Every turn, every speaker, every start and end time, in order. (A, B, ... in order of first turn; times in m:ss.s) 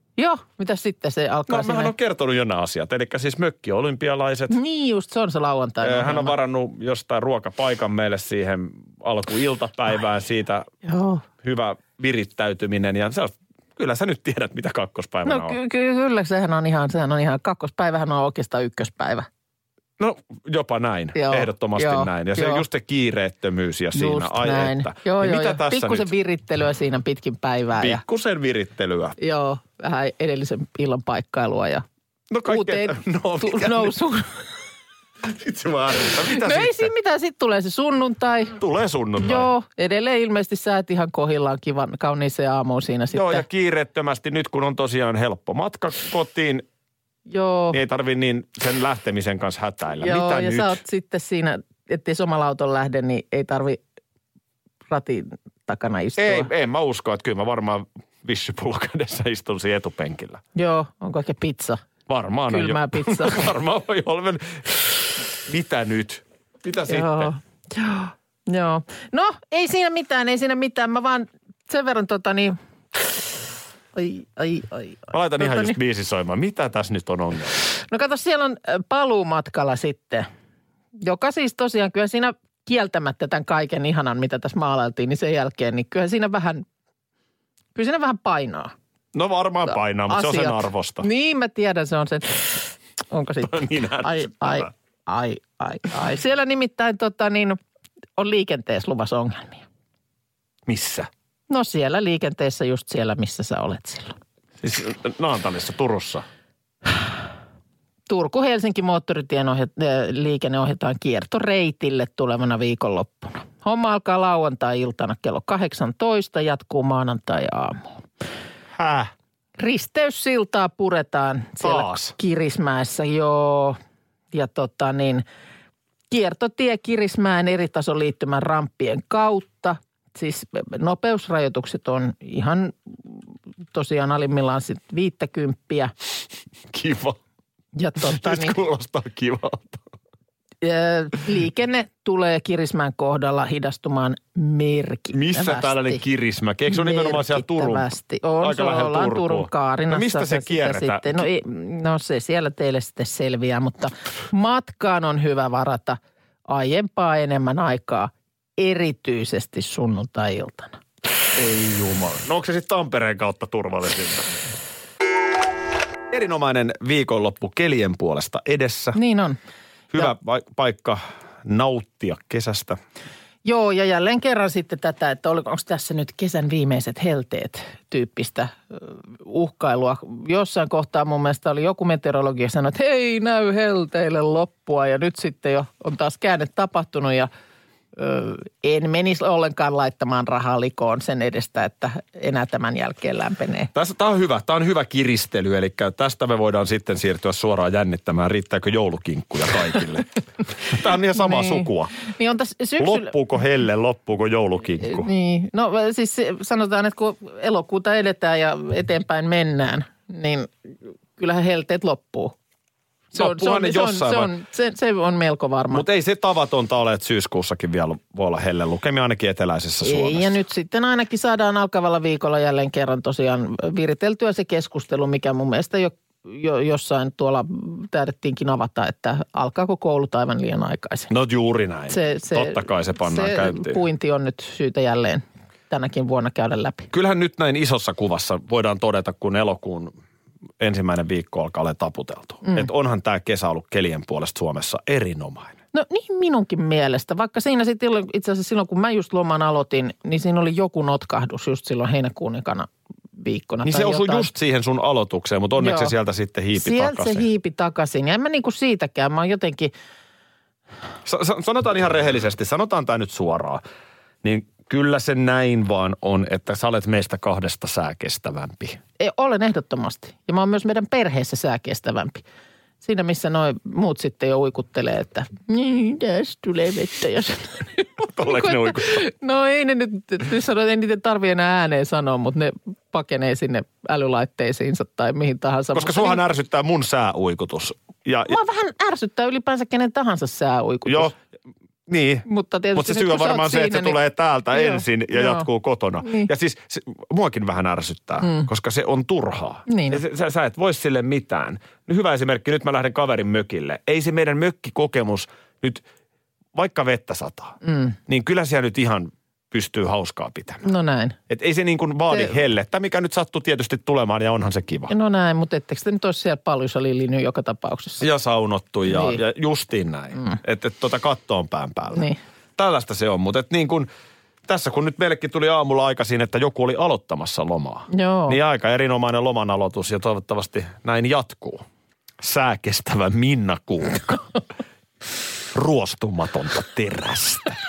0:00.2-0:01.9 A
0:01.5-0:04.6 B
0:04.5-0:06.3 A
0:05.8-0:10.7 B
0:10.8-0:11.2 A
0:11.4-0:15.6 B
0:15.2-0:19.3 A
0:20.0-0:26.1 B
0:21.1-0:22.6 A
0:23.9-0:28.0 A
0:27.8-0:29.2 B
0:29.2-0:31.8 A
0:32.3-0:33.9 B
0:32.5-0:34.3 A
0:35.2-0:36.9 B
0:36.2-0:38.6 A
0:38.6-0:39.5 B
0:39.2-0:43.4 A
0:43.1-0:46.6 B
0:47.3-0:47.8 A
0:47.7-0:50.8 B
0:50.0-0:53.8 A
0:54.9-0:56.5 A
0:56.2-1:00.4 B
1:00.6-1:01.8 A
1:02.1-1:07.3 B
1:02.5-1:03.5 A
1:06.9-1:12.5 A
1:13.9-1:15.8 A
1:15.1-1:17.6 B
1:17.9-1:20.3 A
1:21.0-1:26.6 A
1:27.7-1:28.7 A
1:29.1-1:31.0 B
1:29.7-1:37.6 A
1:33.4-1:34.7 B
1:38.2-1:39.6 A
1:40.7-1:41.1 B
1:41.5-1:44.2 A
1:44.6-1:46.2 B
1:48.1-1:57.9 A
1:58.7-1:59.1 B
1:59.6-2:03.8 A
2:01.6-2:02.1 B
2:04.3-2:05.2 A
2:06.1-2:15.9 A
2:16.7-2:17.2 B
2:17.8-2:18.6 A
2:18.0-2:19.8 B
2:20.6-2:26.0 A
2:25.1-2:27.9 B
2:26.7-2:40.8 A
2:28.4-2:31.2 B
2:41.3-2:44.5 B
2:46.1-2:49.0 B
2:48.9-2:49.4 A
2:49.9-2:52.8 B
2:53.4-3:07.3 A
3:08.0-3:13.7 A
3:13.7-3:21.9 B
3:21.1-3:23.1 A
3:22.8-3:25.1 B
3:24.8-3:30.5 A
3:31.2-3:32.3 A
3:33.1-3:35.8 A
3:33.1-3:34.3 B
3:35.7-3:40.4 B
3:39.8-3:51.1 A
3:51.1-3:53.8 B
3:51.9-3:56.9 A
3:56.9-3:59.9 B
4:00.6-4:05.6 B
4:05.7-4:14.3 A
4:13.6-4:17.2 B
4:15.6-4:15.9 A
4:16.5-4:19.7 A
4:21.0-4:23.6 B
4:24.2-4:28.8 B
4:29.0-4:32.2 A
4:32.8-4:46.2 A
4:38.0-4:39.0 B
4:45.7-4:48.4 B
4:48.3-4:51.1 A
4:50.8-4:51.1 B
4:51.9-5:05.8 B
4:52.2-4:54.0 A
4:54.5-4:55.5 A
4:56.0-4:56.3 A
4:58.2-4:58.5 A
4:59.7-5:00.0 A
5:06.5-5:10.6 B
5:07.6-5:08.0 A
5:10.6-5:11.2 A
5:11.3-5:14.9 B
5:12.1-5:12.4 A
5:14.9-5:18.0 A
5:18.0-5:23.9 B
5:18.9-5:19.2 A
5:21.9-5:22.2 A
5:24.4-5:31.6 B
5:27.9-5:28.4 A
5:32.2-5:34.2 B
5:35.5-5:37.6 B